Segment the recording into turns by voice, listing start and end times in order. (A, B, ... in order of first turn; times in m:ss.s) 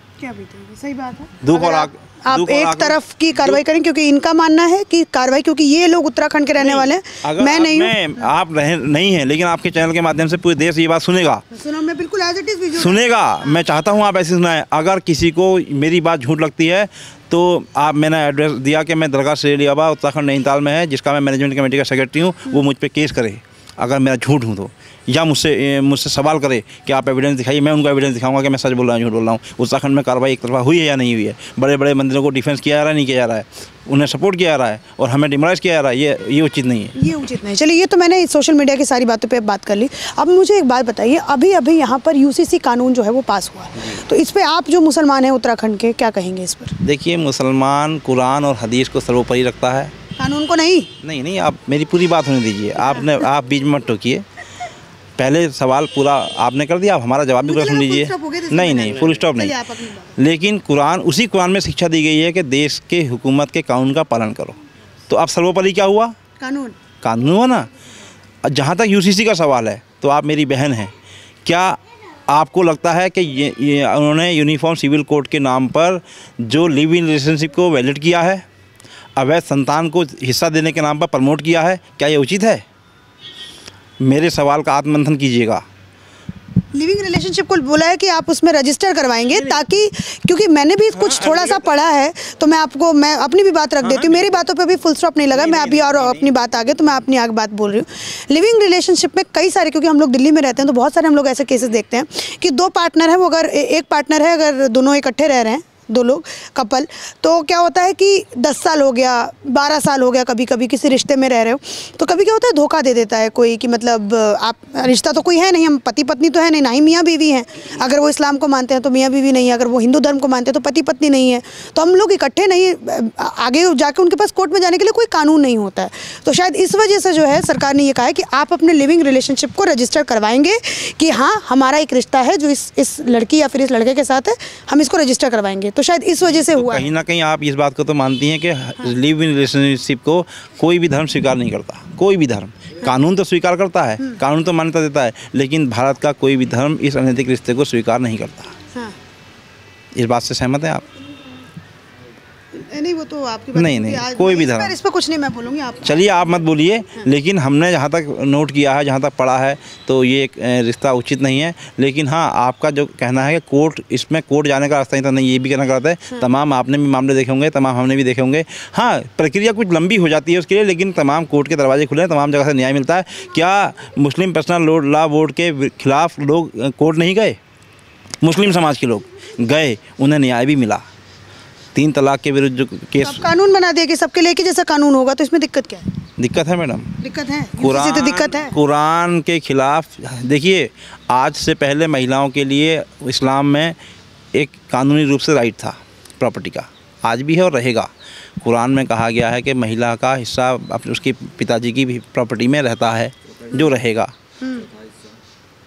0:00.2-0:07.9 A
0:01.4-0:03.6 B
0:06.6-0:11.4 B
0:11.5-0:13.6 A
0:12.8-0:36.9 B
0:37.0-0:46.7 A
0:46.8-0:49.9 B
0:50.2-0:50.9 A
0:51.0-0:54.2 B
0:52.8-0:53.2 A
0:55.2-0:59.6 B
0:57.4-1:00.1 A
1:00.2-1:04.6 B
1:05.1-1:06.1 B
1:06.4-1:06.8 A
1:07.0-1:07.7 B
1:08.4-1:10.9 B
1:11.4-1:18.4 B
1:19.2-1:22.6 B
1:24.0-1:25.6 B
1:26.7-2:16.9 A
1:30.9-1:31.6 B
1:33.8-1:34.4 B
1:35.4-1:36.2 B
2:16.5-2:28.5 B
2:29.9-2:30.8 B
2:32.5-2:36.0 A
2:33.5-2:34.7 B
2:35.8-2:57.4 B
2:58.2-3:00.8 B
3:01.7-3:03.3 B
3:03.0-3:05.8 A
3:06.2-3:07.0 B
3:07.0-3:08.5 A
3:07.6-3:13.7 B
3:14.3-3:17.9 B
3:18.4-3:24.1 B
3:24.4-3:24.7 A